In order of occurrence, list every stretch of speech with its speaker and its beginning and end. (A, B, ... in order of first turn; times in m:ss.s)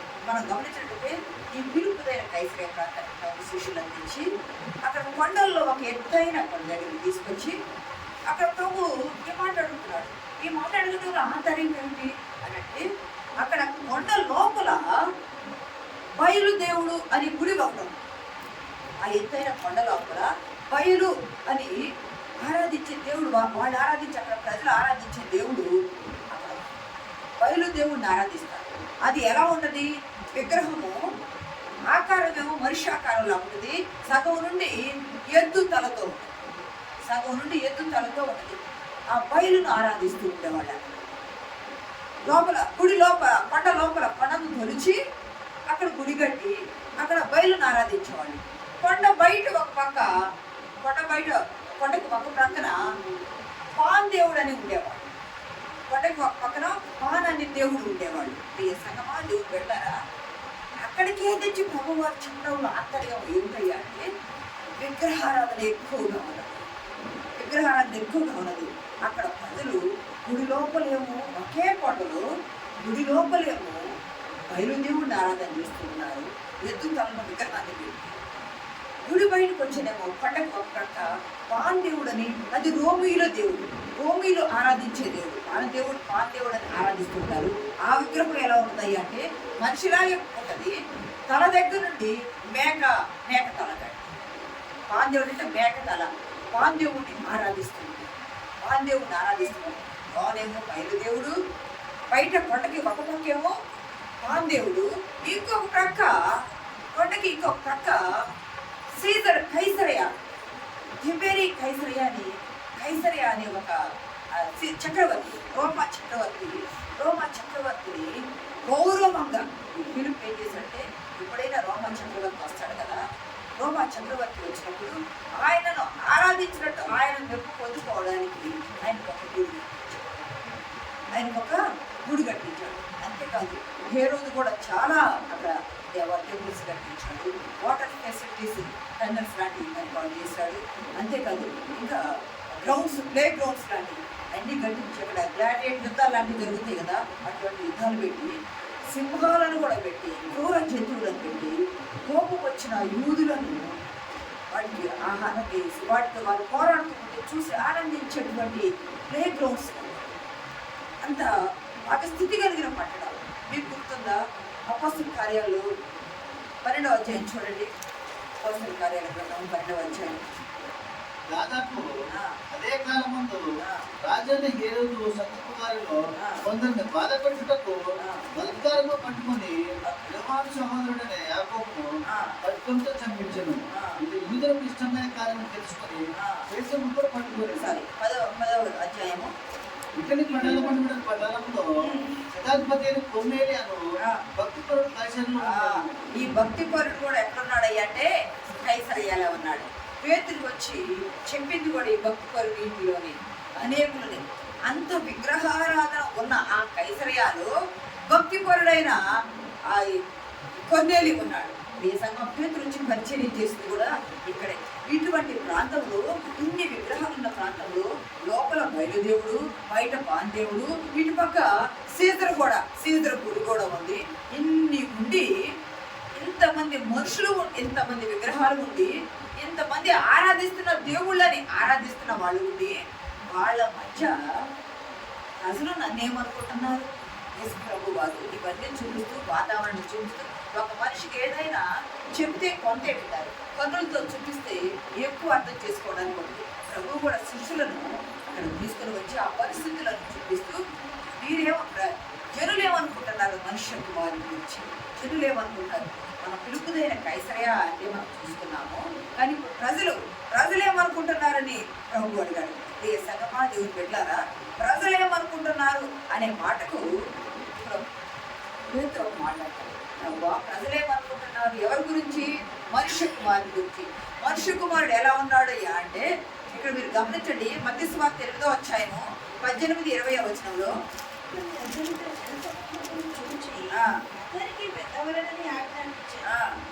0:00.3-0:04.2 A
0:04.8-0:07.6 A
0:08.3-0:12.8 A
0:13.4-0:14.8 A
0:16.2-0:18.0 A
0:19.0-0:21.7 A
0:22.4-0:25.7 A
0:26.3-0:26.7 A
0:27.4-0:31.0 A
0:31.9-0:34.7 A
0:35.3-0:36.3 A
0:37.1-0:38.6 A
0:39.1-0:41.1 A
0:42.2-0:45.0 A
0:45.7-0:50.1 A
0:50.8-0:52.8 A
0:53.8-0:55.1 A
0:55.9-0:59.9 A
1:00.8-1:04.0 A
1:04.8-1:06.6 A
1:07.4-1:12.2 A
1:12.8-1:13.8 A
1:14.5-1:18.4 A
1:19.1-1:30.8 A
1:31.3-1:34.1 A
1:34.9-1:41.3 A
1:42.1-1:43.5 A
1:44.2-1:46.2 A
1:46.9-1:48.0 A
1:49.0-1:50.1 A
1:51.0-1:53.8 A
1:54.3-1:58.1 A
1:58.7-2:03.0 A
2:03.6-2:10.4 A
2:11.1-2:22.0 A
2:22.5-2:28.3 A
2:28.9-2:33.8 A
2:34.5-2:40.1 A
2:41.0-2:41.3 A
2:41.9-2:44.2 A
2:44.7-2:45.7 A
2:46.6-2:47.7 A
2:48.4-2:50.3 A
2:51.3-2:51.9 B
2:52.1-2:52.4 A
2:52.5-2:53.4 B
2:53.6-2:53.8 A
2:54.0-2:57.8 B
2:58.0-2:58.2 A
2:58.4-3:01.8 B
2:59.8-3:00.1 A
3:02.1-3:02.4 A
3:02.4-3:07.7 B
3:03.7-3:04.0 A
3:06.2-3:06.5 A
3:07.6-3:09.3 A
3:10.0-3:11.6 B
3:11.8-3:12.2 A
3:12.3-3:13.8 B
3:14.4-3:16.0 B
3:15.5-3:18.1 A
3:18.6-3:27.5 A
3:28.1-3:29.0 A
3:29.7-3:30.0 A
3:30.6-3:45.3 A
3:46.2-3:52.8 A
3:53.3-3:54.1 A
3:55.4-3:56.9 A
3:57.4-4:10.6 A
4:11.2-4:26.9 A
4:27.5-4:27.8 A
4:28.7-4:40.7 A
4:41.3-4:46.2 C
4:43.7-4:44.0 A
4:46.3-4:46.6 A